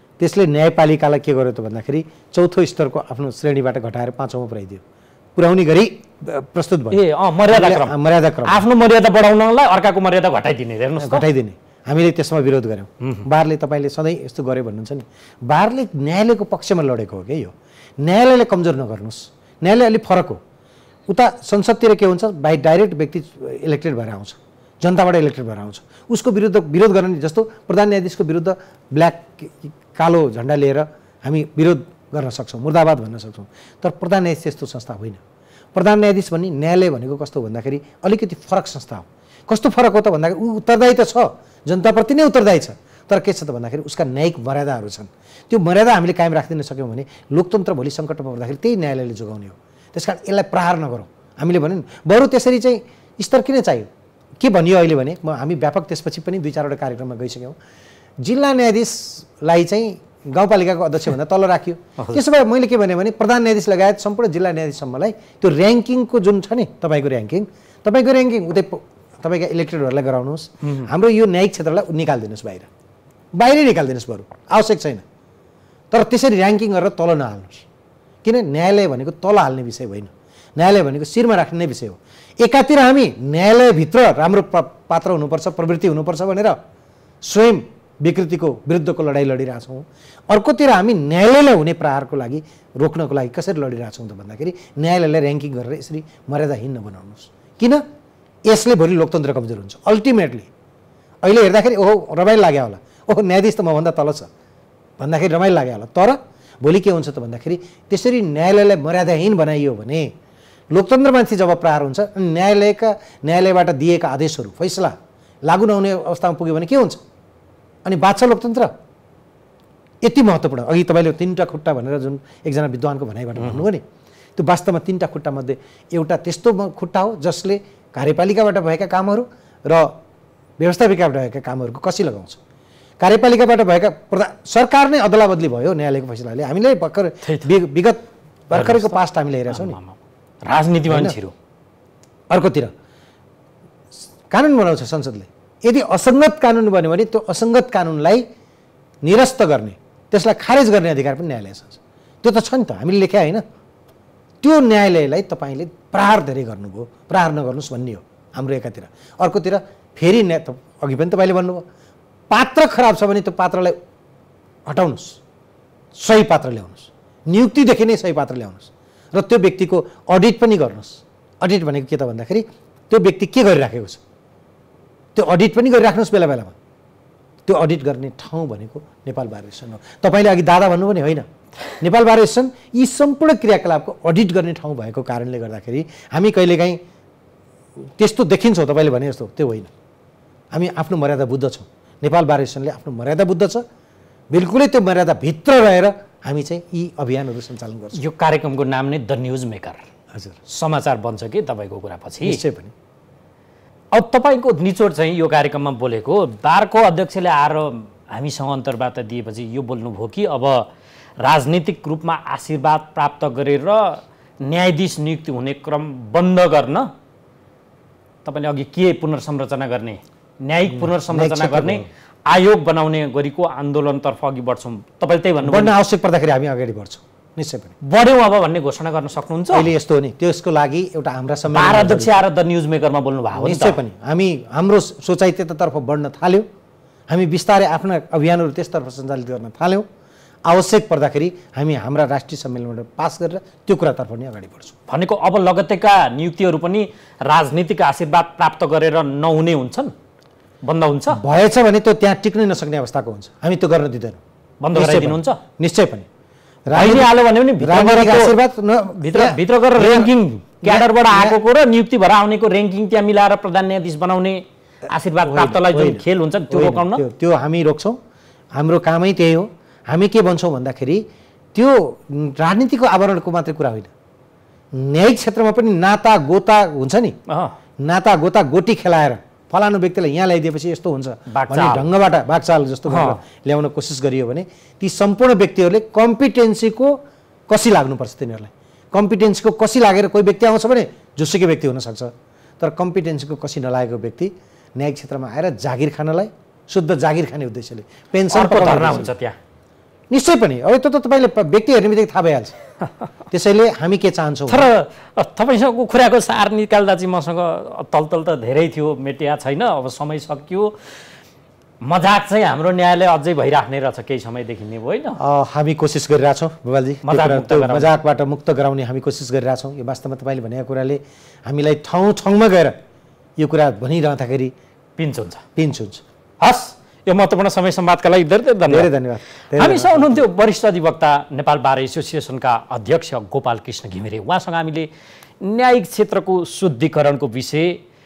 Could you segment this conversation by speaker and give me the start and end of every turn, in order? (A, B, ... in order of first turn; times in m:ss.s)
0:00.2-0:04.8 A
0:05.3-0:08.6 A
0:06.9-0:11.2 B
0:11.0-0:20.4 A
0:21.1-0:35.2 A
0:35.7-0:57.6 A
0:58.2-1:12.7 A
1:10.6-1:10.9 B
1:13.3-1:15.0 A
1:15.9-1:17.6 A
1:18.2-1:26.6 A
1:27.2-1:37.8 A
1:38.4-1:40.5 A
1:41.2-1:44.3 A
1:45.0-1:50.1 A
1:50.7-1:57.0 A
1:57.8-1:58.7 A
2:00.0-2:03.8 A
2:03.4-2:03.7 B
2:04.4-2:10.0 A
2:10.6-2:12.4 A
2:13.0-2:19.8 A
2:17.2-2:17.5 B
2:18.5-2:19.0 B
2:19.5-2:21.3 B
2:20.9-2:21.2 A
2:22.3-2:22.7 A
2:24.3-2:28.2 A
2:29.0-2:33.4 A
2:34.4-2:41.6 A
2:42.3-2:43.8 A
2:44.6-2:45.2 A
2:45.9-2:54.0 A
2:55.1-2:56.5 A
2:57.4-3:01.2 A
3:01.8-3:06.8 A
3:08.0-3:09.7 A
3:10.5-3:13.6 A
3:14.3-3:18.0 A
3:17.9-3:19.8 B
3:20.5-3:22.4 B
3:22.2-3:22.7 A
3:23.9-3:30.6 B
3:31.2-3:36.9 B
3:38.2-3:45.7 B
3:40.7-3:41.9 A
3:45.4-3:47.7 A
3:47.8-3:49.7 B
3:49.5-3:52.2 A
3:51.5-3:53.8 B
3:53.3-3:56.4 A
3:57.1-3:59.8 A
4:00.4-4:04.7 A
4:04.9-4:09.9 B
4:10.6-4:11.2 B
4:11.1-4:14.2 A
4:14.6-4:15.4 B
4:14.7-4:16.1 A
4:16.7-4:21.4 A
4:16.7-4:18.4 B
4:18.9-4:27.0 B
4:25.2-4:28.0 A
4:28.5-4:33.9 A
4:34.7-4:37.2 A
4:37.3-4:37.5 B
4:37.8-4:59.1 A
4:41.3-4:41.9 B
4:42.9-4:43.2 B
4:58.3-4:59.4 B
5:00.1-5:02.5 A
5:03.3-5:04.7 A
5:04.5-5:10.7 B
5:11.8-5:15.2 B
5:15.2-5:22.8 A
5:17.0-5:17.9 B
5:23.4-5:24.5 A
5:25.0-5:25.4 B
5:25.6-5:26.0 A
5:26.4-5:28.9 B
5:28.7-5:30.2 A
5:29.6-5:34.9 B
5:35.4-5:37.8 B